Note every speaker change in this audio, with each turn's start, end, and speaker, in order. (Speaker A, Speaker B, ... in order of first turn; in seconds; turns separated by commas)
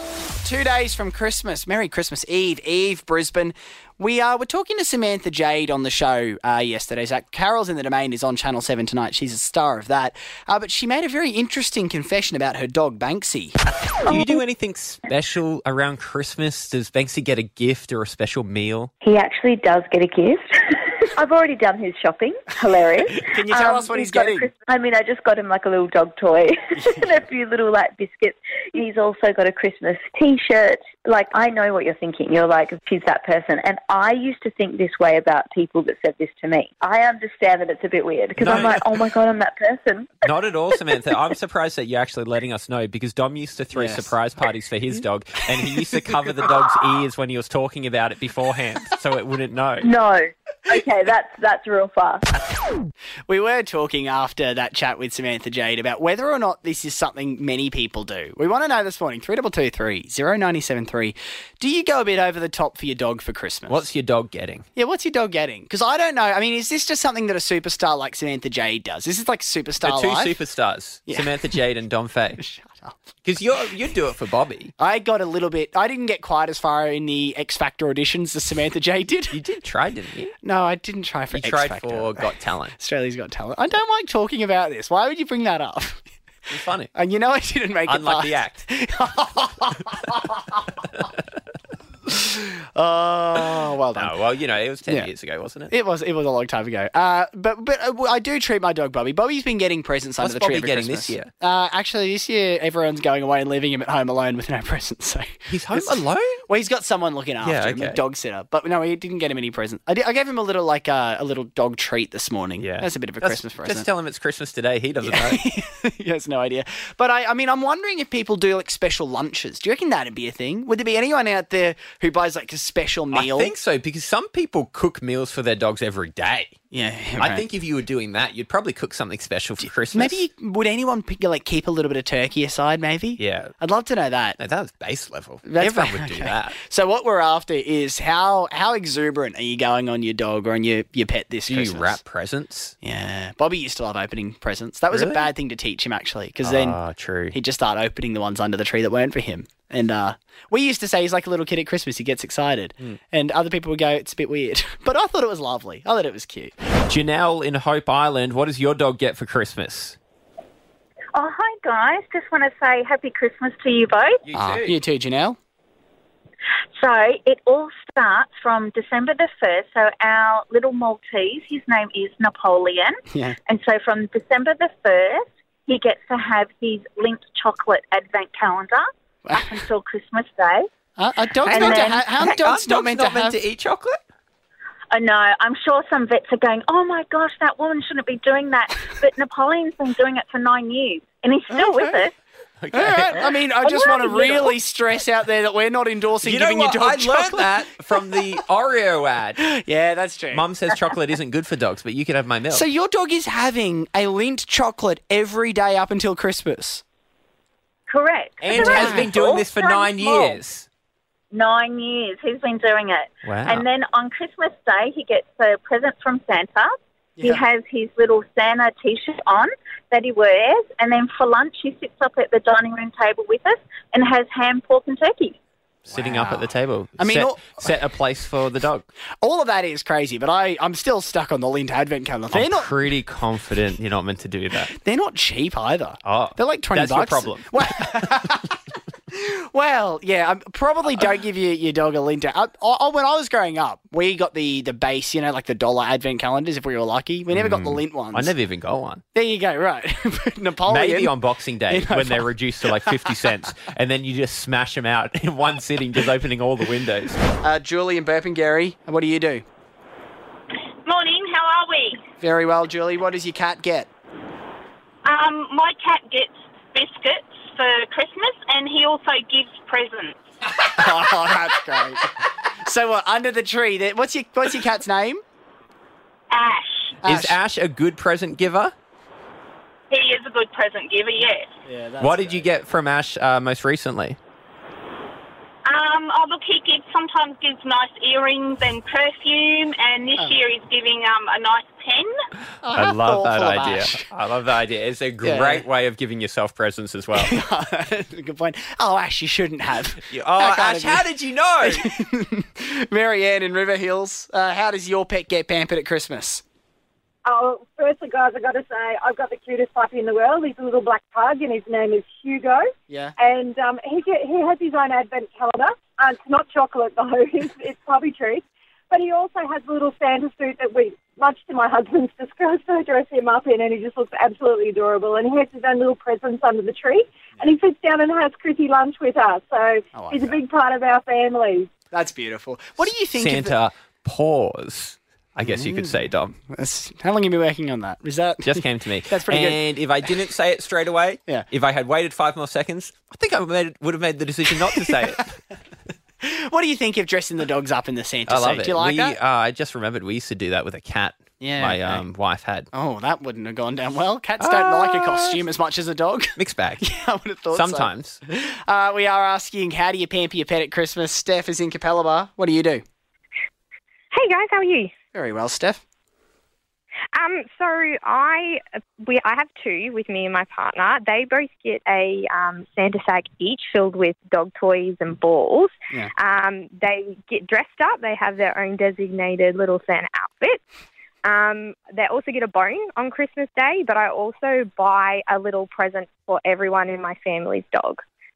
Speaker A: 0.4-13.6, Speaker B: 14.1-18.9, Speaker C: 19.0-40.1, Speaker A: 23.0-24.5, Speaker A: 26.8-27.1, Speaker B: 38.4-38.8, Speaker B: 40.2-49.9, Speaker A: 43.7-44.1, Speaker A: 45.6-46.5, Speaker C: 49.8-52.3, Speaker A: 53.3-63.8, Speaker B: 63.7-64.7, Speaker A: 64.8-70.4, Speaker B: 69.8-72.4, Speaker A: 71.1-71.5, Speaker A: 72.4-73.0, Speaker B: 73.2-74.7, Speaker A: 74.8-79.4, Speaker B: 79.3-80.3, Speaker A: 80.4-86.1, Speaker B: 81.3-82.8, Speaker B: 86.5-86.9, Speaker A: 87.0-90.6, Speaker B: 87.9-88.6, Speaker A: 92.1-94.2, Speaker B: 94.0-95.7, Speaker A: 95.7-113.9, Speaker B: 100.2-101.3, Speaker B: 105.5-106.4, Speaker B: 107.4-108.0, Speaker B: 112.6-115.4, Speaker A: 115.0-123.5, Speaker B: 123.1-126.5, Speaker A: 126.7-127.4, Speaker B: 127.2-130.2, Speaker A: 129.6-134.4, Speaker B: 133.2-133.5, Speaker B: 134.4-136.6, Speaker A: 135.4-142.0, Speaker B: 141.5-142.7, Speaker A: 142.8-146.8, Speaker B: 144.9-145.3, Speaker B: 146.4-147.4, Speaker A: 147.3-156.6, Speaker B: 156.8-160.0, Speaker D: 161.2-164.1, Speaker B: 164.3-164.7, Speaker A: 164.3-165.4, Speaker D: 166.8-172.9, Speaker A: 173.1-173.4, Speaker D: 173.5-178.8, Speaker A: 179.2-179.6, Speaker D: 179.8-180.6, Speaker A: 181.0-183.4, Speaker B: 181.4-184.0, Speaker D: 185.0-189.9, Speaker E: 185.1-186.2, Speaker E: 189.2-190.5, Speaker D: 190.4-191.6, Speaker E: 191.1-192.0, Speaker A: 191.5-192.1, Speaker B: 192.6-193.3, Speaker A: 192.7-198.4, Speaker E: 194.1-194.4, Speaker B: 196.2-199.4, Speaker A: 199.4-200.5, Speaker B: 200.3-202.7, Speaker A: 202.5-206.8, Speaker E: 207.9-208.3, Speaker D: 208.1-210.2, Speaker B: 208.4-210.7, Speaker D: 211.4-216.7, Speaker E: 211.5-212.3, Speaker B: 213.2-213.7, Speaker A: 217.2-217.4, Speaker D: 217.2-225.4, Speaker E: 217.7-218.1, Speaker E: 221.6-222.4, Speaker B: 225.9-228.9, Speaker A: 225.9-227.8, Speaker A: 229.2-232.7, Speaker B: 232.3-234.7, Speaker A: 234.7-238.6, Speaker B: 236.1-237.5, Speaker A: 239.1-248.4, Speaker B: 247.3-249.0, Speaker A: 249.2-253.5, Speaker B: 250.7-257.2, Speaker A: 257.4-259.4, Speaker E: 260.9-262.0, Speaker A: 262.2-263.9, Speaker E: 265.0-270.2, Speaker A: 270.8-275.2, Speaker E: 276.3-276.9, Speaker A: 277.0-277.4, Speaker B: 277.1-278.7, Speaker E: 279.9-281.5, Speaker A: 281.7-282.5, Speaker B: 282.0-284.2, Speaker E: 285.6-292.1, Speaker A: 292.6-294.1, Speaker B: 292.7-297.3, Speaker A: 295.2-295.6, Speaker A: 297.1-301.1, Speaker B: 300.1-301.8, Speaker A: 301.6-306.4, Speaker F: 307.2-331.7, Speaker A: 312.9-313.1, Speaker A: 329.9-330.4, Speaker A: 331.9-333.6, Speaker B: 333.2-336.4, Speaker A: 335.4-339.6, Speaker B: 338.5-345.3, Speaker A: 344.5-345.2, Speaker A: 346.2-349.2, Speaker B: 348.3-352.7, Speaker A: 351.4-352.1, Speaker A: 352.7-362.8, Speaker B: 354.4-355.4, Speaker B: 356.4-356.8, Speaker B: 357.6-358.2, Speaker G: 364.1-364.9, Speaker A: 365.1-365.8, Speaker G: 367.1-380.6, Speaker G: 381.2-388.0